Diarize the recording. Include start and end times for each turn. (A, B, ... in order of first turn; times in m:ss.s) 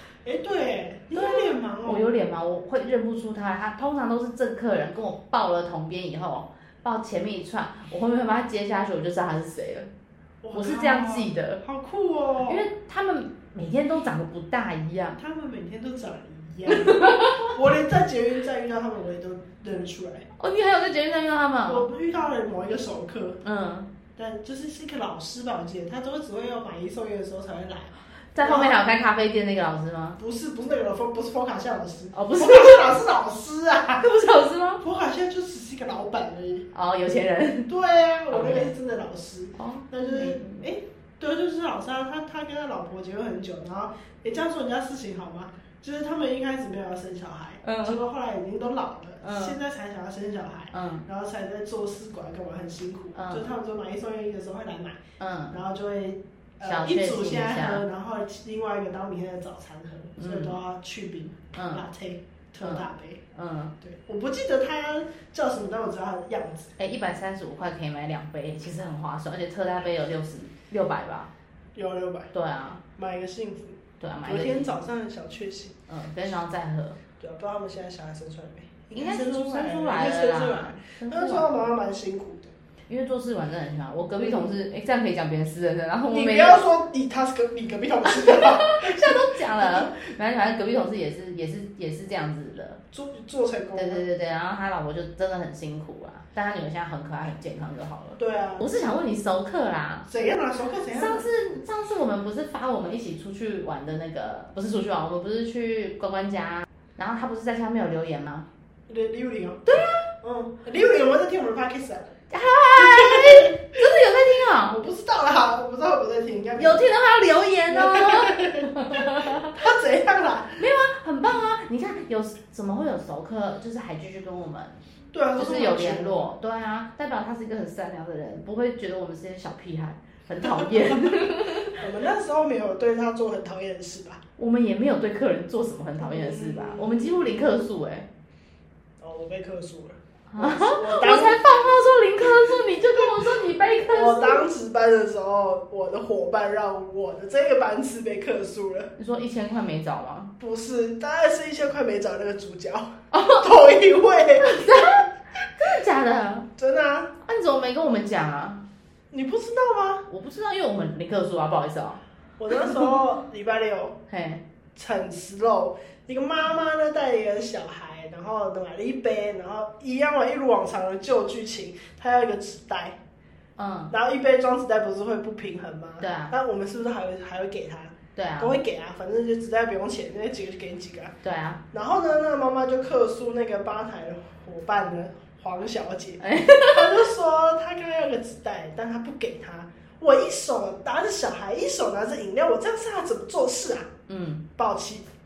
0:00.2-0:02.2 A
0:01.1-0:09.9 B
0:10.4-0:12.6 A
0:10.5-0:11.6 B
0:12.4-0:15.2 B
0:15.2-0:20.3 A
0:16.7-0:17.5 B
0:20.4-0:21.9 B
0:21.7-0:23.4 A
0:23.4-0:23.9 B
0:24.2-0:28.8 A
0:28.3-0:30.2 B
0:30.2-0:34.1 A
0:32.1-0:32.9 B
0:34.0-0:34.8 B
0:34.8-0:36.7 A
0:36.7-0:37.7 B
0:37.7-0:55.0 A
0:38.3-0:38.7 B
0:39.6-0:40.6 B
0:47.6-0:48.0 B
0:49.2-0:49.6 B
0:50.7-0:51.0 B
0:53.1-0:53.5 B
0:55.2-0:55.6 B
0:55.5-1:03.2 A
0:56.6-0:57.8 B
1:00.2-1:00.6 B
1:01.5-1:01.8 B
1:02.6-1:03.7 B
1:03.8-1:06.7 A
1:06.8-1:11.3 B
1:11.7-1:12.3 A
1:12.3-1:12.8 B
1:13.0-1:15.8 A
1:14.0-1:14.7 B
1:15.9-1:17.0 B
1:17.2-1:22.5 A
1:18.9-1:21.5 B
1:22.9-1:26.6 B
1:24.2-1:24.5 A
1:26.1-1:29.9 A
1:28.0-1:32.8 B
1:32.9-1:34.0 A
1:33.8-1:40.1 B
1:38.2-1:38.7 A
1:40.1-1:41.3 A
1:40.9-1:48.5 B
1:48.9-1:49.6 A
1:49.6-1:50.1 B
1:50.2-1:52.1 A
1:52.3-1:54.8 B
1:52.7-1:53.8 A
1:54.6-1:56.8 A
1:56.6-1:59.7 B
1:57.7-2:00.6 A
2:00.6-2:04.8 B
2:05.1-2:06.3 A
2:05.4-2:11.8 B
2:10.4-2:14.2 A
2:14.4-2:18.1 B
2:16.0-2:17.2 A
2:19.0-2:21.5 A
2:20.3-2:24.5 B
2:23.9-2:28.9 A
2:29.0-2:30.3 B
2:30.4-2:35.0 A
2:33.1-2:33.5 B
2:34.4-2:35.0 B
2:35.6-2:36.5 B
2:36.6-2:37.1 A
2:37.2-2:38.6 B
2:39.1-2:40.0 A
2:40.1-2:42.9 B
2:42.4-2:44.0 A
2:44.1-2:44.4 B
2:44.7-2:53.0 A
2:53.6-2:53.9 B
2:53.9-3:01.1 A
2:56.0-2:56.3 B
2:58.1-2:58.6 B
3:01.2-3:01.6 B
3:01.7-3:13.9 A
3:06.2-3:07.1 B
3:14.1-3:14.4 B
3:14.6-3:15.0 A